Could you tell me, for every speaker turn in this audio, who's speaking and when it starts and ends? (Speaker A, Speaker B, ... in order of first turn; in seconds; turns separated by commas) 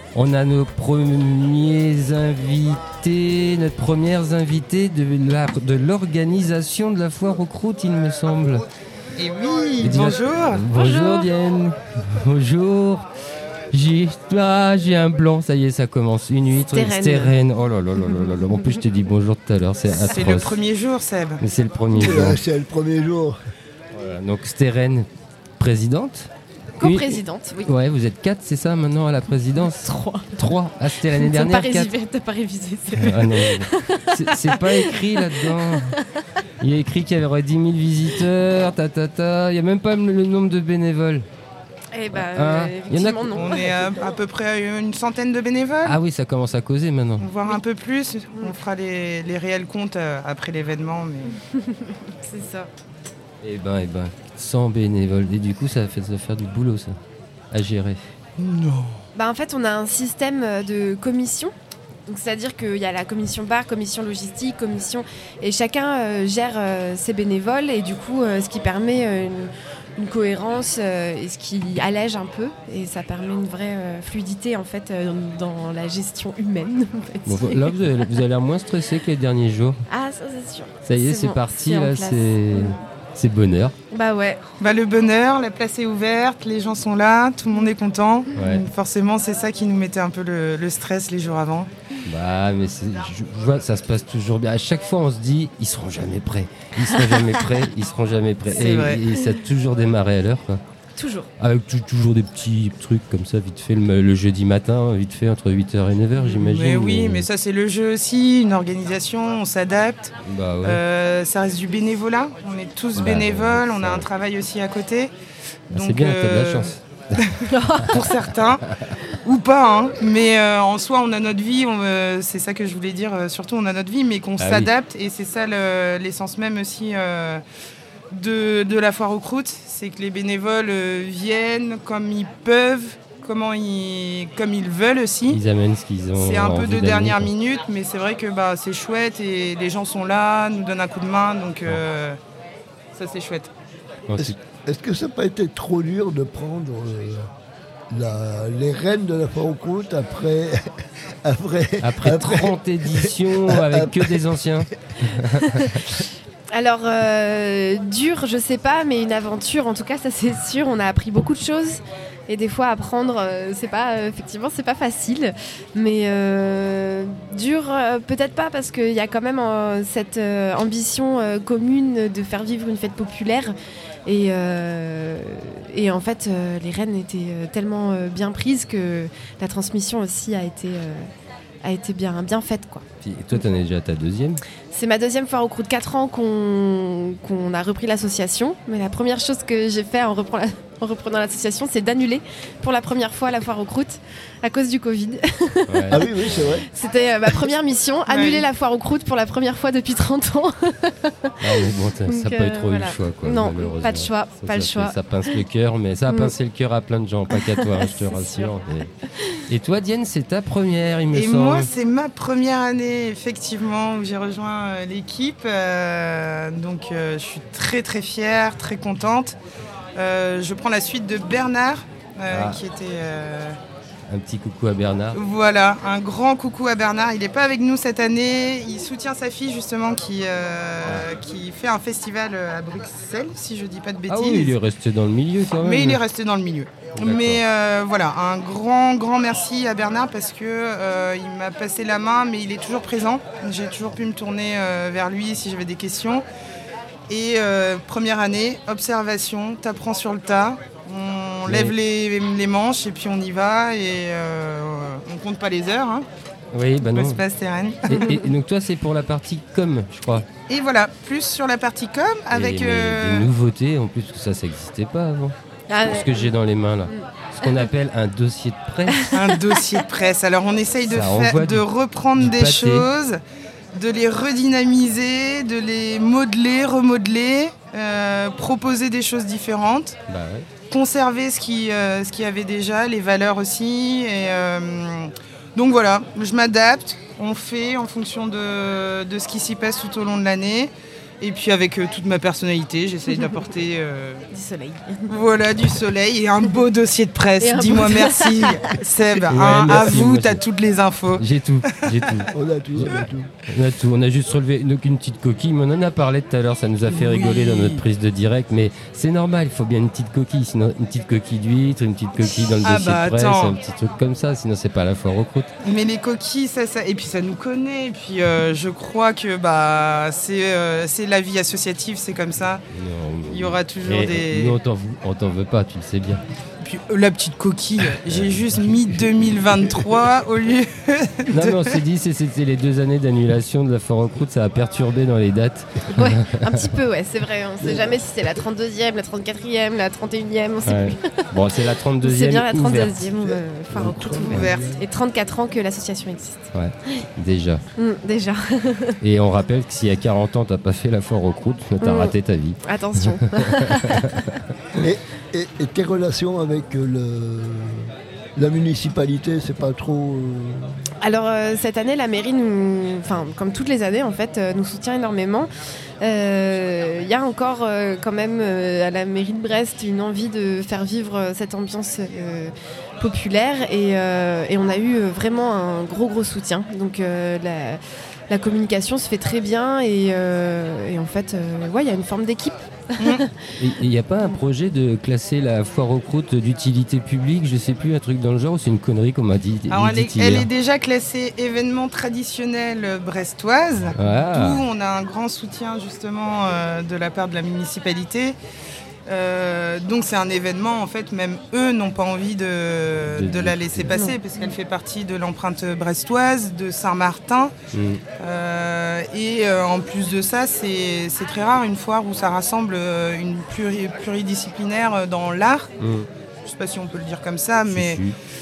Speaker A: 0.1-8.7, Speaker B: 9.2-10.6, Speaker A: 9.8-13.1, Speaker C: 10.8-11.3, Speaker A: 13.7-20.6, Speaker C: 16.6-17.3, Speaker B: 19.9-21.4, Speaker A: 21.4-22.4, Speaker D: 21.9-23.4, Speaker A: 23.9-25.1, Speaker A: 25.6-26.3, Speaker C: 26.8-27.7, Speaker A: 26.8-31.9, Speaker C: 29.7-30.4, Speaker C: 31.1-36.2, Speaker A: 33.0-36.0, Speaker A: 36.6-41.3, Speaker C: 41.9-43.6, Speaker A: 42.1-43.5, Speaker B: 43.4-46.0, Speaker A: 45.9-47.3, Speaker B: 47.2-51.3, Speaker C: 51.3-52.7, Speaker A: 53.4-57.0, Speaker A: 57.5-58.0, Speaker B: 58.4-59.0, Speaker C: 59.1-61.5, Speaker C: 62.1-77.7, Speaker A: 77.3-79.8, Speaker C: 79.9-82.8, Speaker A: 80.9-83.8, Speaker C: 83.9-84.4, Speaker B: 84.6-91.7, Speaker A: 88.3-88.7, Speaker A: 92.0-100.6, Speaker B: 98.5-99.0, Speaker C: 101.0-101.3, Speaker A: 101.4-107.3, Speaker B: 106.2-115.1, Speaker A: 110.2-110.8, Speaker A: 113.0-114.1, Speaker B: 115.7-127.4, Speaker A: 115.7-117.9, Speaker C: 117.4-118.0, Speaker A: 124.4-124.7, Speaker B: 128.1-135.4, Speaker A: 135.3-137.3, Speaker B: 136.2-142.2, Speaker B: 142.9-143.5, Speaker A: 144.1-144.3, Speaker D: 144.2-147.3, Speaker D: 147.9-154.2, Speaker A: 151.8-155.9, Speaker C: 155.4-155.7, Speaker C: 156.5-173.5, Speaker C: 174.1-181.1, Speaker C: 181.6-182.8, Speaker A: 183.0-184.4, Speaker C: 184.7-196.1, Speaker A: 195.7-196.1, Speaker D: 195.9-196.7, Speaker C: 196.7-205.4, Speaker B: 198.1-198.5, Speaker A: 201.4-208.9, Speaker C: 206.1-206.3, Speaker C: 207.3-208.6, Speaker C: 209.2-209.4, Speaker A: 209.5-211.7, Speaker B: 211.1-219.4, Speaker B: 220.0-223.6, Speaker A: 222.3-222.6, Speaker A: 224.1-225.2, Speaker B: 225.1-234.6, Speaker A: 234.1-236.0, Speaker B: 235.6-246.2, Speaker A: 237.0-237.4, Speaker B: 247.1-256.1, Speaker A: 251.4-251.8, Speaker A: 256.5-257.2, Speaker B: 256.8-258.0, Speaker A: 257.9-260.3, Speaker C: 257.9-258.2, Speaker B: 260.5-263.3, Speaker A: 262.3-269.1, Speaker C: 265.7-266.3, Speaker C: 266.9-267.6, Speaker C: 268.9-269.3, Speaker B: 269.1-273.2, Speaker A: 270.9-271.6, Speaker A: 272.2-272.9, Speaker B: 273.7-280.0, Speaker A: 280.1-280.5, Speaker B: 280.7-294.2, Speaker C: 294.3-295.1, Speaker B: 295.1-301.2, Speaker C: 297.4-298.7, Speaker A: 299.3-300.4, Speaker A: 301.2-315.5, Speaker B: 301.9-302.2, Speaker D: 302.3-303.3, Speaker B: 306.9-307.8, Speaker B: 312.3-313.6, Speaker B: 315.6-322.6, Speaker A: 322.7-326.2, Speaker B: 323.3-324.6, Speaker B: 326.6-331.8, Speaker A: 327.9-329.4, Speaker A: 331.3-336.7, Speaker C: 335.9-341.5, Speaker D: 337.6-337.9, Speaker A: 340.6-343.1, Speaker C: 342.0-347.1, Speaker D: 343.2-344.8, Speaker B: 344.2-344.7, Speaker A: 346.5-347.6, Speaker C: 347.8-349.0, Speaker A: 349.0-354.2, Speaker C: 351.8-354.4, Speaker D: 354.7-360.8, Speaker C: 361.0-365.5, Speaker C: 366.0-383.5, Speaker B: 383.0-383.2, Speaker A: 383.6-390.5, Speaker B: 389.7-398.4, Speaker A: 393.9-394.6, Speaker B: 399.1-407.6, Speaker A: 403.1-404.0, Speaker A: 407.7-408.0, Speaker B: 408.2-415.7, Speaker A: 415.8-416.1, Speaker B: 416.4-418.0, Speaker A: 417.7-418.2